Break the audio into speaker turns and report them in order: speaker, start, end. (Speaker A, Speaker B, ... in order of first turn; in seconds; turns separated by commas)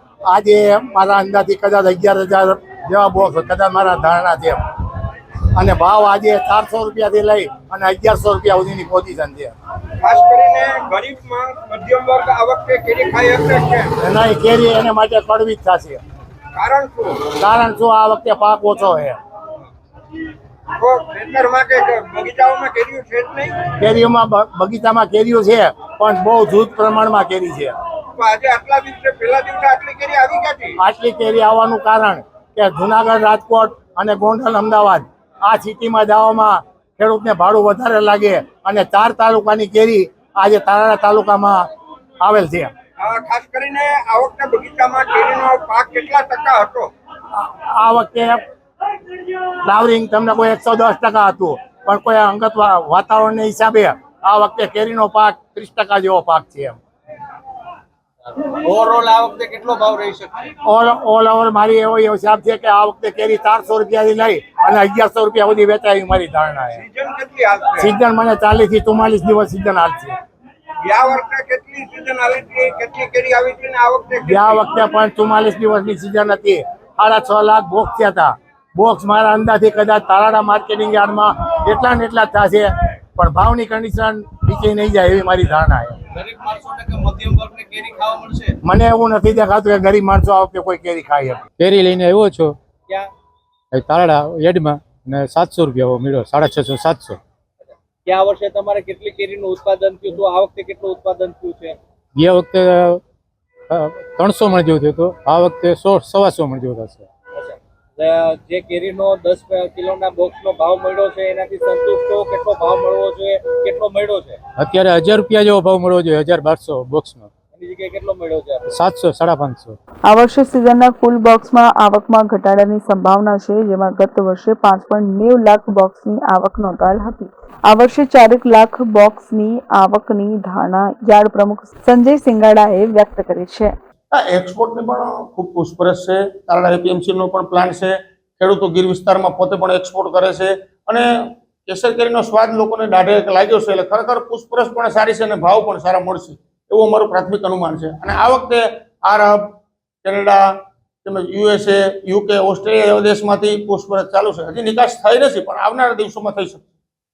Speaker A: 0.3-4.6, Speaker A: 5.5-9.5, Speaker B: 10.0-13.9, Speaker A: 14.0-16.0, Speaker B: 16.6-17.3, Speaker A: 17.3-19.2, Speaker B: 20.8-23.7, Speaker A: 23.8-27.7, Speaker B: 28.2-30.8, Speaker A: 30.8-41.7, Speaker A: 42.2-42.7, Speaker B: 43.0-46.9, Speaker A: 47.4-48.4, Speaker A: 49.6-56.8, Speaker C: 58.3-60.5, Speaker A: 60.7-66.8, Speaker B: 66.9-67.9, Speaker A: 67.8-70.2, Speaker B: 70.8-74.6, Speaker A: 74.2-86.0, Speaker C: 86.1-88.6, Speaker A: 88.6-91.4, Speaker D: 91.6-92.6, Speaker D: 93.7-97.2, Speaker C: 97.6-101.8, Speaker D: 102.2-103.0, Speaker D: 103.7-107.1, Speaker C: 107.3-114.4, Speaker D: 114.6-117.3, Speaker C: 117.5-118.7, Speaker D: 118.7-119.8, Speaker E: 120.1-133.7, Speaker F: 134.1-141.1, Speaker F: 141.7-150.5, Speaker F: 151.0-156.7